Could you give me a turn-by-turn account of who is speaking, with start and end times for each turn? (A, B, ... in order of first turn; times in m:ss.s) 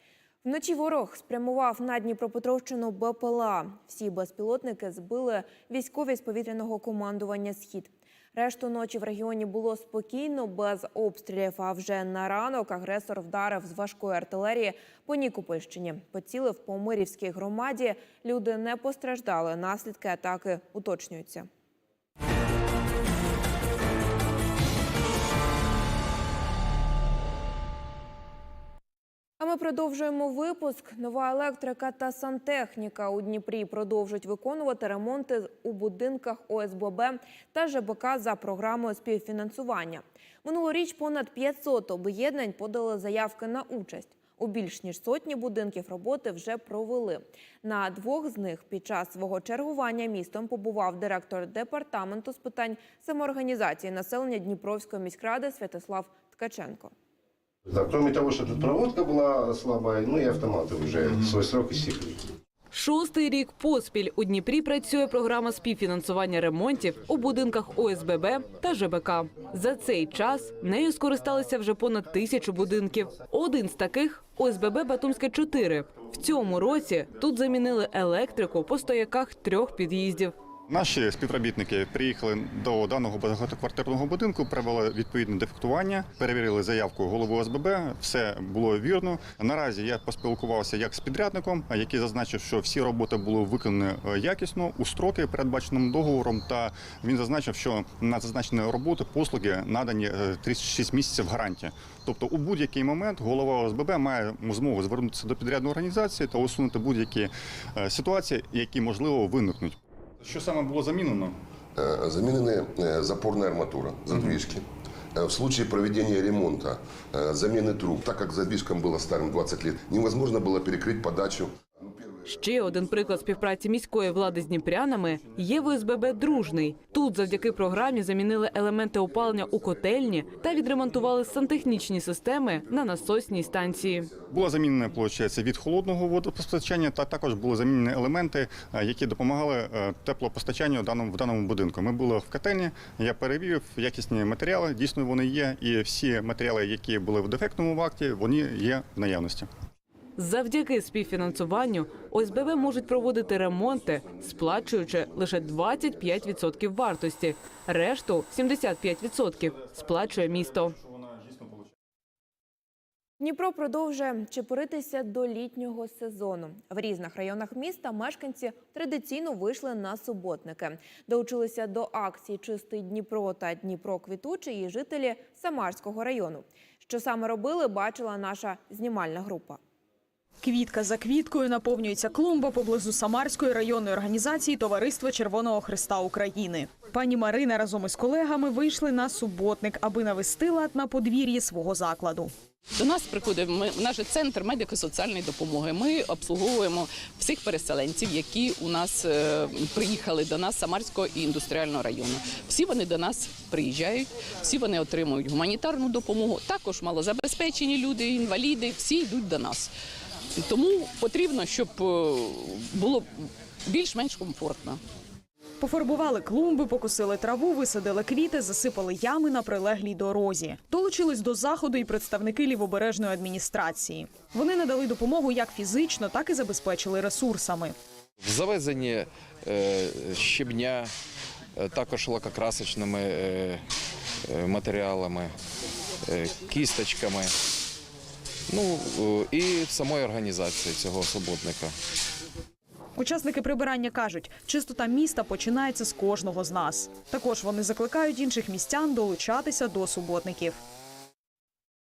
0:00.4-0:21.5 A
0:29.4-0:56.9 A
0:57.7-1:01.7 B
1:02.7-1:20.3 C
1:20.7-1:51.3 D
1:51.8-2:03.2 E
2:02.3-2:14.1 C
2:07.1-2:07.9 E
2:08.9-2:11.8 E
2:12.5-2:14.2 E
2:14.3-2:29.5 D
2:30.2-2:40.7 C
2:32.0-2:36.5 E
2:39.5-2:41.7 D
2:43.2-2:59.6 A
3:00.4-3:12.3 F
3:12.8-3:29.7 G
3:30.4-3:34.8 G
3:35.6-3:47.7 F
3:48.2-3:50.9 H
3:51.5-3:53.6 H
3:54.3-3:55.3 H
3:56.1-3:57.3 H
3:58.5-4:01.7 H
4:03.0-4:10.6 F